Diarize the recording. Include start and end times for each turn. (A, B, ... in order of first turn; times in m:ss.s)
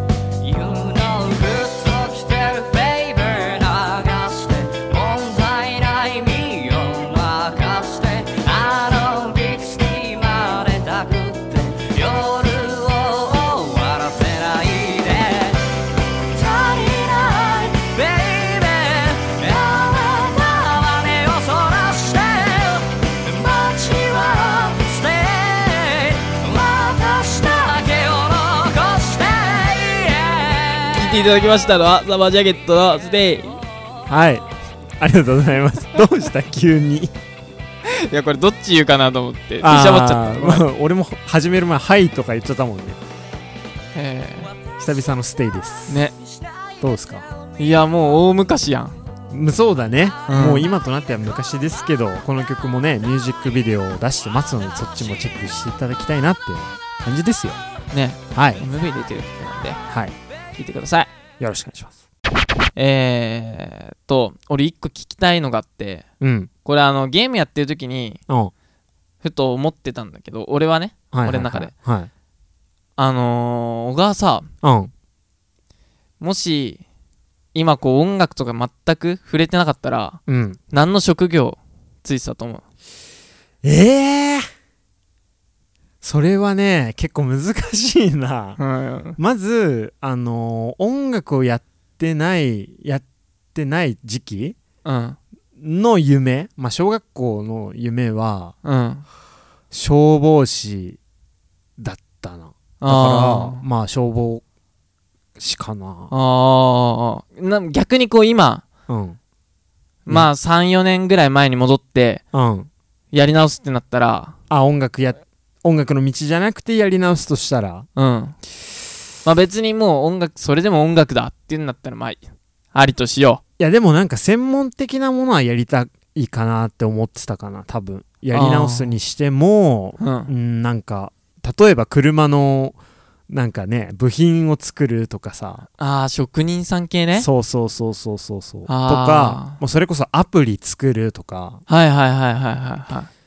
0:00.4-0:15.6 A
0:16.3-0:31.2 A
0:31.0-0:33.6 B
0:34.1-0:34.5 C
0:35.0-0:37.1 C
0:37.9-0:40.6 B
0:39.6-0:43.0 C
0:43.9-0:44.5 B
0:44.8-0:46.0 C
0:45.9-0:46.1 B
0:46.2-0:46.5 A
0:46.8-0:47.3 C
0:47.6-0:49.0 B
0:49.3-0:57.6 C
0:50.3-0:50.7 B
0:57.9-0:59.8 B
0:58.3-0:58.6 C
0:59.9-1:00.2 C
1:00.6-1:01.1 B
1:01.4-1:02.0 C
1:02.8-1:06.1 B
1:06.2-1:06.5 C
1:06.6-1:08.2 B
1:09.2-1:11.7 B
1:11.1-1:12.1 C
1:13.0-1:14.5 B
1:14.6-1:14.9 C
1:16.2-1:16.8 B
1:17.5-1:22.6 B
1:20.3-1:20.6 C
1:23.6-1:24.5 C
1:26.0-1:28.6 C
1:28.6-1:29.2 B
1:29.2-1:34.6 C
1:34.8-1:35.2 B
1:35.6-1:38.6 C
1:38.6-1:39.0 B
1:39.7-1:41.0 C
1:41.8-1:44.4 C
1:42.8-1:43.6 B
1:45.4-1:46.1 C
1:46.1-1:48.6 B
1:48.9-1:49.2 C
1:50.1-1:52.2 B
1:52.3-1:52.7 C
1:53.1-1:54.4 B
1:54.5-1:57.9 C
1:58.0-1:58.4 B
1:59.2-2:02.2 B
2:02.7-2:03.4 B
2:03.6-2:12.8 C
2:08.3-2:09.0 B
2:10.0-2:10.3 B
2:13.3-2:15.7 C
2:15.8-2:17.3 B
2:17.2-2:21.6 C
2:18.7-2:19.6 B
2:21.7-2:23.1 B